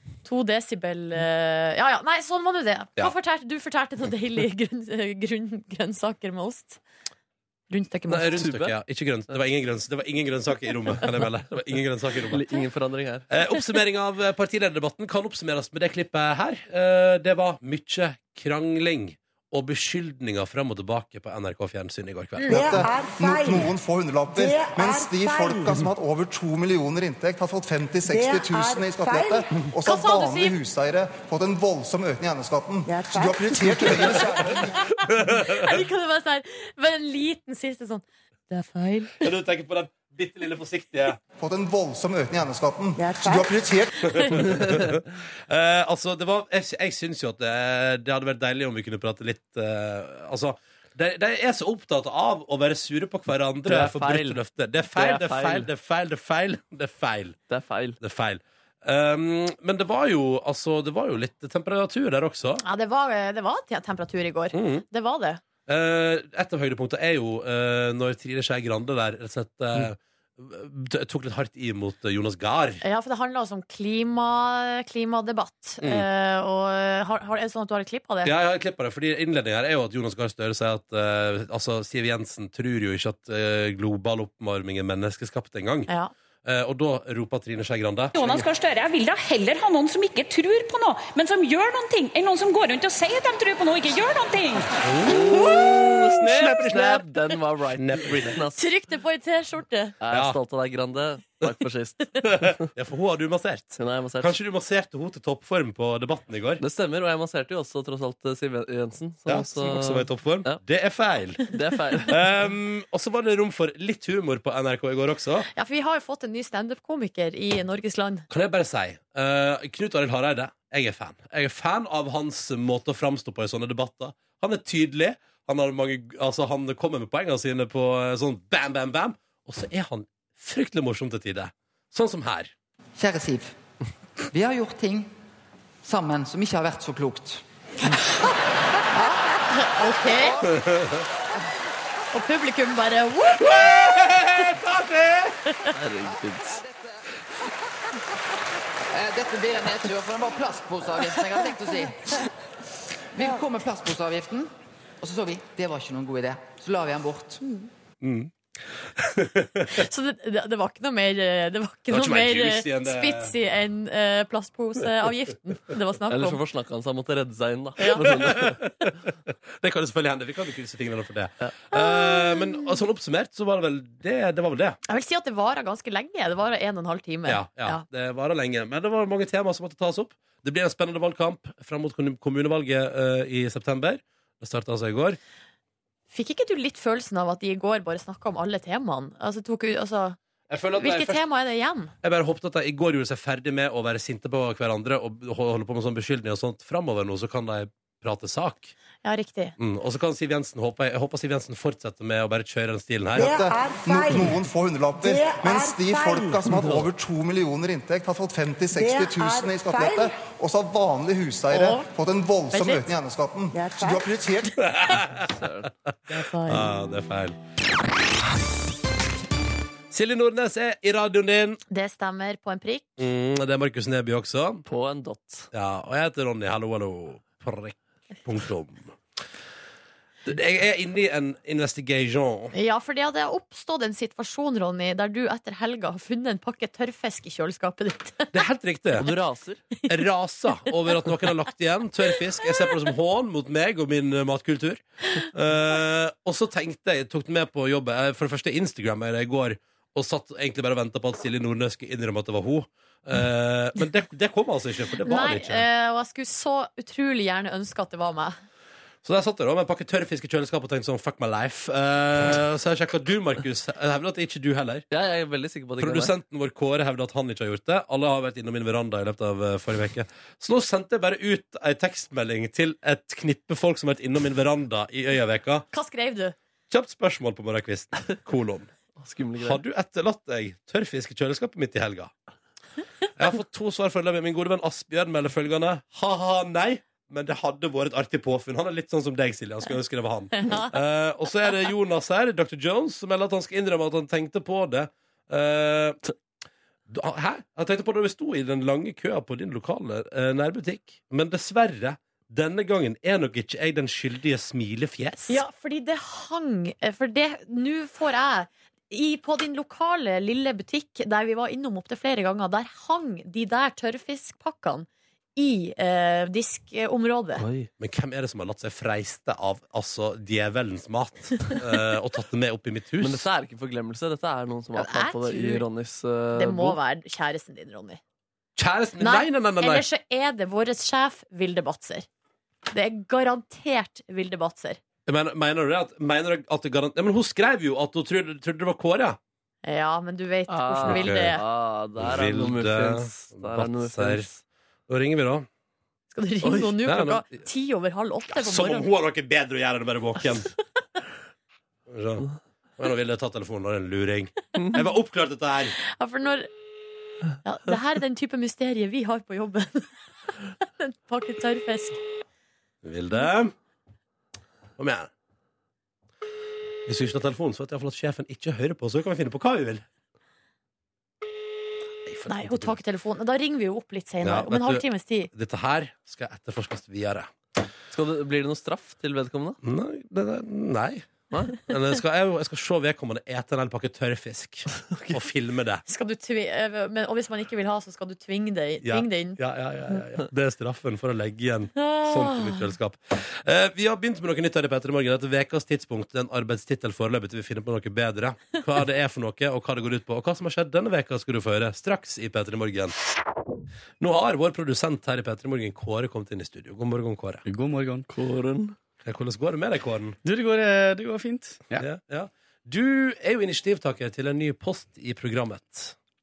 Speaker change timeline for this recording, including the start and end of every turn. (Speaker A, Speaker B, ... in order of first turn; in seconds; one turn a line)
Speaker A: 0.2-6.8
Speaker A: 7.7-8.5
Speaker B: 8.1-12.4
Speaker C: 8.3-8.7
Speaker C: 12.3-13.3
Speaker B: 13.3-22.6
Speaker D: 22.4-34.6
Speaker A: 29.9-30.6
Speaker B: 34.0-35.6
Speaker A: 35.3-39.2
Speaker B: 39.2-41.2
Speaker D: 41.4-44.4
Speaker B: 44.0-57.4
Speaker C: 53.7-54.4
Speaker C: 54.9-55.7
Speaker C: 57.5-58.0
Speaker B: 58.0-62.6
Speaker A: 62.6-65.4
Speaker B: 64.5-64.9
Speaker B: 65.7-72.8
Speaker A: 72.8-78.3
Speaker B: 75.8-76.1
Speaker B: 78.2-85.9
Speaker B: 86.4-88.5
Speaker E: 88.1-94.8
Speaker B: 94.8-97.1
Speaker C: 95.0-98.7
Speaker A: 95.3-95.8
Speaker B: 97.7-98.4
Speaker A: 98.6-99.9
Speaker C: 100.0-102.6
Speaker B: 100.1-100.4
Speaker B: 102.2-106.6
Speaker C: 103.8-104.3
Speaker C: 106.6-110.6
Speaker B: 109.3-111.5
Speaker C: 111.5-112.2
Speaker B: 112.0-115.5
Speaker A: 115.5-118.3
Speaker B: 118.3-132.5
Speaker F: 133.0-133.5
Speaker F: 134.3-135.1
Speaker F: 135.8-137.4
Speaker A: 138.9-140.4
Speaker B: 140.5-141.0
Speaker A: 142.1-143.6
Speaker B: 143.4-145.4
Speaker C: 145.7-146.6
Speaker F: 148.9-152.2
Speaker F: 153.1-154.5
Speaker F: 155.0-157.5
Speaker B: 158.0-158.3
Speaker B: 158.9-159.8
Speaker A: 159.7-166.4
Speaker B: 161.9-163.3
Speaker C: 166.1-168.6
Speaker A: 167.8-168.1
Speaker B: 168.1-174.8
Speaker A: 171.7-172.6
Speaker A: 174.9-177.8
Speaker B: 177.3-185.2
Speaker A: 186.1-190.2
Speaker B: 190.5-191.2
Speaker A: 190.8-191.9
Speaker B: 192.0-198.7
Speaker A: 199.0-199.6
Speaker B: 199.6-203.3
Speaker D: 203.1-214.7
Speaker A: 211.5-211.9
Speaker A: 212.5-212.9
Speaker B: 214.6-215.3
Speaker C: 215.3-215.7
Speaker A: 216.1-216.7
Speaker B: 216.4-217.4
Speaker B: 219.9-221.6
Speaker A: 221.7-223.0
Speaker B: 223.0-224.6
Speaker C: 224.7-225.5
Speaker B: 225.5-228.9
Speaker B: 230.3-232.5
Speaker A: 232.5-238.3
Speaker B: 238.3-239.1
Speaker C: 239.0-239.6
Speaker B: 239.9-255.6
Speaker A: 255.0-258.4
Speaker B: 259.0-264.9
Speaker C: 264.9-266.1
Speaker B: 265.8-275.6
Speaker A: 275.7-276.4
Speaker B: 276.7-278.7
Speaker C: 279.0-279.6
Speaker B: 279.4-282.1
Speaker B: 283.1-296.0
Speaker B: 296.9-305.4
Speaker A: 305.3-317.4
Speaker C: 317.4-317.7
Speaker B: 317.8-323.3
Speaker C: 323.0-326.8
Speaker A: 324.8-325.6
Speaker A: 326.4-328.0
Speaker B: 328.6-329.9
Speaker A: 329.0-332.1
Speaker A: 332.7-334.8
Speaker B: 335.1-339.2
Speaker A: 339.6-341.4
Speaker C: 340.5-344.4
Speaker B: 340.9-341.4
Speaker B: 342.0-344.3
Speaker B: 344.9-345.5
Speaker A: 346.1-348.9
Speaker B: 346.8-347.4
Speaker B: 348.3-350.5
Speaker B: 351.9-352.3
Speaker B: 352.8-355.8
Speaker A: 355.9-356.5
Speaker A: 357.4-359.9
Speaker A: 360.6-362.0
Speaker B: 362.8-363.5
Speaker B: 364.8-365.1
Speaker B: 366.9-369.8
Speaker B: 372.1-372.8
Speaker A: 372.3-375.3
Speaker B: 374.2-377.3
Speaker C: 377.9-379.6
Speaker B: 379.6-381.1
Speaker C: 381.3-381.6
Speaker B: 381.6-385.8
Speaker C: 384.9-385.2
Speaker A: 385.9-389.4
Speaker B: 388.8-402.9
Speaker A: 391.8-392.7
Speaker B: 404.0-407.4
Speaker G: 407.4-408.1
Speaker C: 408.1-408.7
Speaker B: 409.0-410.2
Speaker G: 410.2-411.8
Speaker B: 411.8-415.9